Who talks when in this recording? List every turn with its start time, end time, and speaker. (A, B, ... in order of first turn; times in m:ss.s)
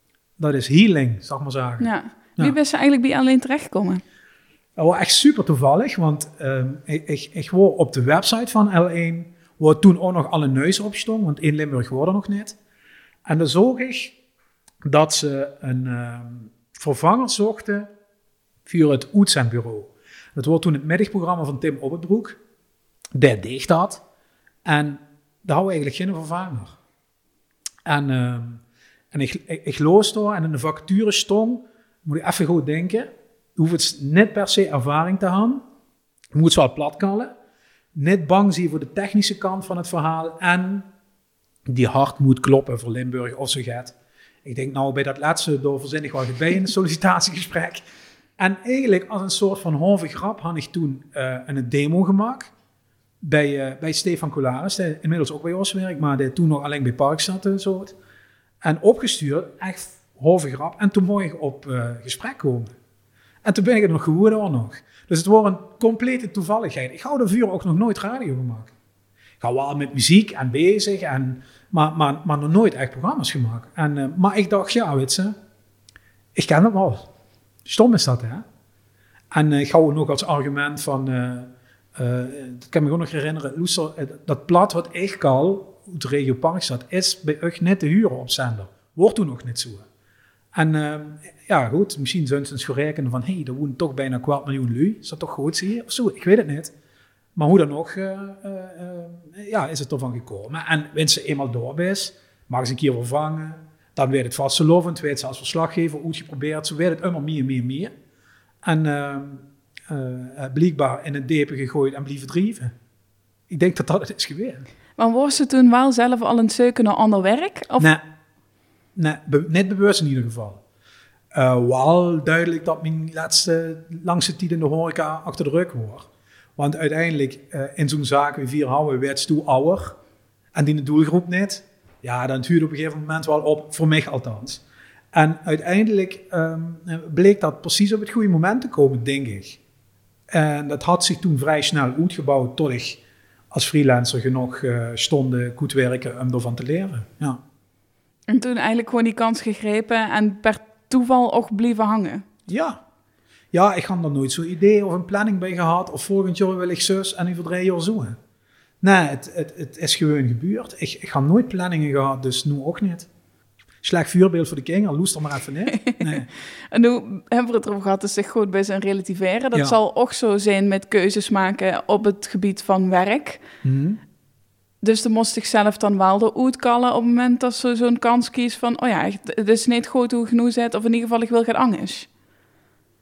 0:00.4-0:02.6 A
0:01.8-0:04.0 B
0:04.8-0:12.6 A
0:13.2-0:14.2 A
0:14.8-0:17.9 A
0:18.6-0:22.4 A
0:23.1-0:24.0 A
0:24.6-0:26.8 A
0:27.8-0:35.6 A
0:36.3-0:37.3 A
0:37.9-0:40.9 A
0:41.6-0:47.8 A
0:48.4-0:52.5 A
0:53.2-0:58.0 A
0:58.6-1:02.7 A
1:03.4-1:08.7 A
1:09.4-1:15.3 A
1:16.3-1:17.0 A
1:17.6-1:18.4 A
1:19.3-1:29.8 A
1:30.5-1:36.7 A
1:37.4-1:47.9 A
1:48.6-1:52.7 A
1:53.5-1:54.6 A
1:55.0-1:57.9 B
1:59.0-2:00.6 A
2:01.3-2:10.0 A
2:10.5-2:19.6 A
2:20.3-2:27.4 A
2:28.3-2:32.3 B
2:32.5-2:32.8 A
2:33.5-2:38.2 A
2:38.8-2:43.1 A
2:43.8-2:46.3 A
2:45.7-2:53.4 B
2:53.6-2:54.0 A
2:54.8-3:02.1 B